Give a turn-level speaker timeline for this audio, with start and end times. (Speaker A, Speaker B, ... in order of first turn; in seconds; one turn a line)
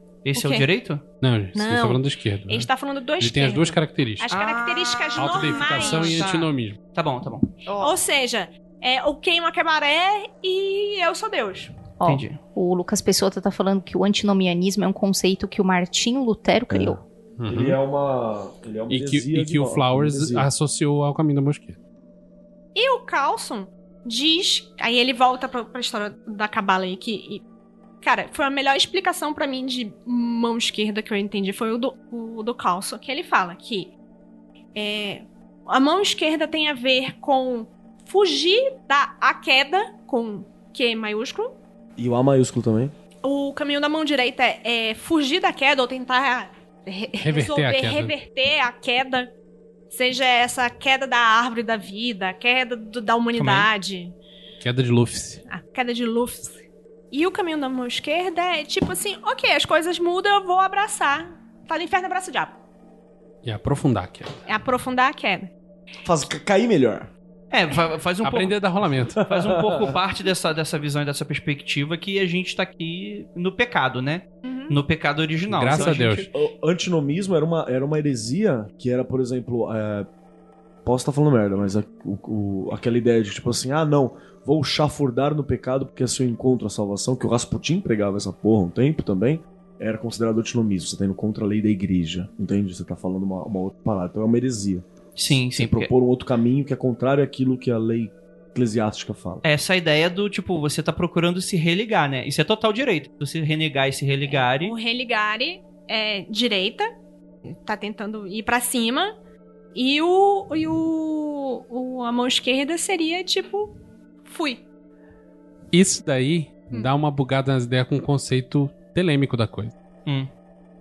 Speaker A: 0.2-1.0
Speaker B: 0.3-0.7
Speaker C: 1.2-4.3
Speaker B: 1.5-6.3
Speaker A: 4.3-7.6
Speaker C: 5.2-6.8
Speaker B: 7.7-11.9
Speaker D: 12.0-17.0
Speaker A: 12.0-12.4
Speaker E: 16.7-20.5
Speaker C: 17.4-17.8
Speaker C: 18.9-21.8
Speaker B: 22.7-27.4
Speaker B: 28.0-33.9
Speaker B: 34.7-41.5
Speaker E: 42.0-42.9
Speaker B: 43.2-49.3
Speaker C: 47.2-48.1
Speaker B: 49.9-54.1
Speaker A: 53.4-53.7
Speaker C: 54.6-55.4
Speaker B: 55.5-62.6
Speaker C: 63.4-64.4
Speaker B: 64.5-65.5
Speaker E: 66.0-67.1
Speaker A: 67.5-68.6
Speaker C: 68.2-69.2
Speaker A: 69.1-76.3
Speaker E: 69.2-70.0
Speaker B: 74.4-74.8
Speaker C: 75.5-76.3
Speaker E: 75.7-80.1
Speaker E: 80.8-99.4
Speaker A: 95.2-95.9
Speaker A: 99.4-104.8
Speaker B: 104.2-106.9
Speaker B: 107.4-109.1
Speaker B: 109.7-114.6
Speaker C: 115.7-119.7